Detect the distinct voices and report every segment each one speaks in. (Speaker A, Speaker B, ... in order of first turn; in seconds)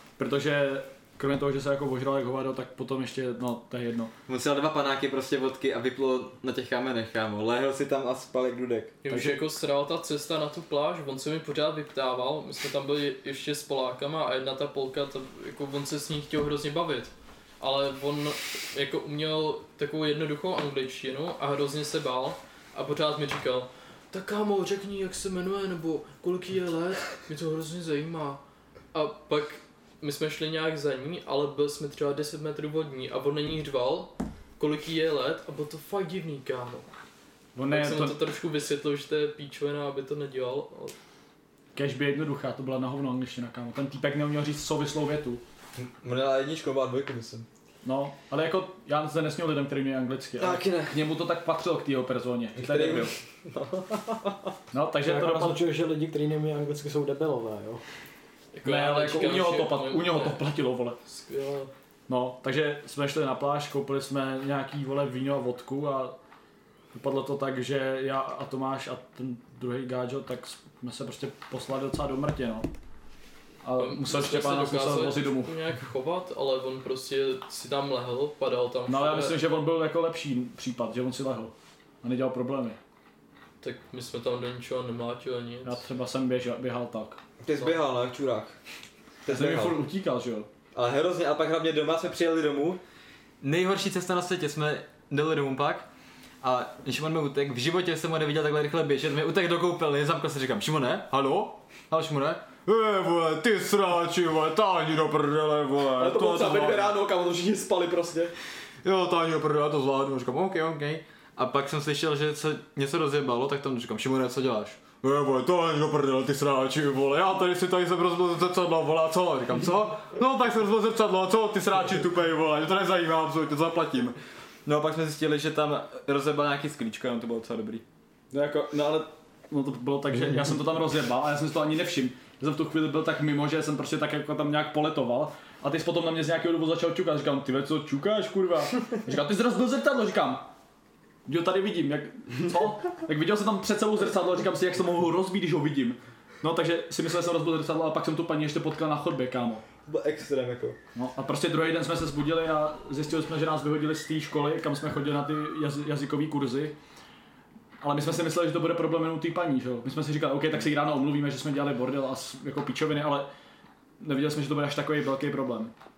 Speaker A: 0.2-4.1, 9.1-9.4, 37.6-38.2, 41.8-45.4, 47.8-53.1, 54.7-55.6, 58.6-61.0, 62.1-66.2, 66.9-72.7, 73.6-75.5, 78.9-82.8, 85.6-87.2, 89.3-90.5, 106.3-106.9, 128.3-140.5, 141.3-149.6, 150.9-156.8, 157.8-163.3, 164.0-165.7
Speaker B: 4.3-8.9, 45.8-47.5, 50.4-51.0, 52.5-54.5, 87.4-88.5, 89.2-89.8, 90.7-92.8, 93.4-95.9, 96.4-106.9, 108.8-127.8, 149.9-150.8
Speaker C: 9.0-28.4, 28.9-36.9, 37.7-41.0, 58.5-60.4, 61.0-61.7, 73.8-79.4, 83.6-85.8
Speaker D: 55.0-57.8
Speaker E: 106.0-108.3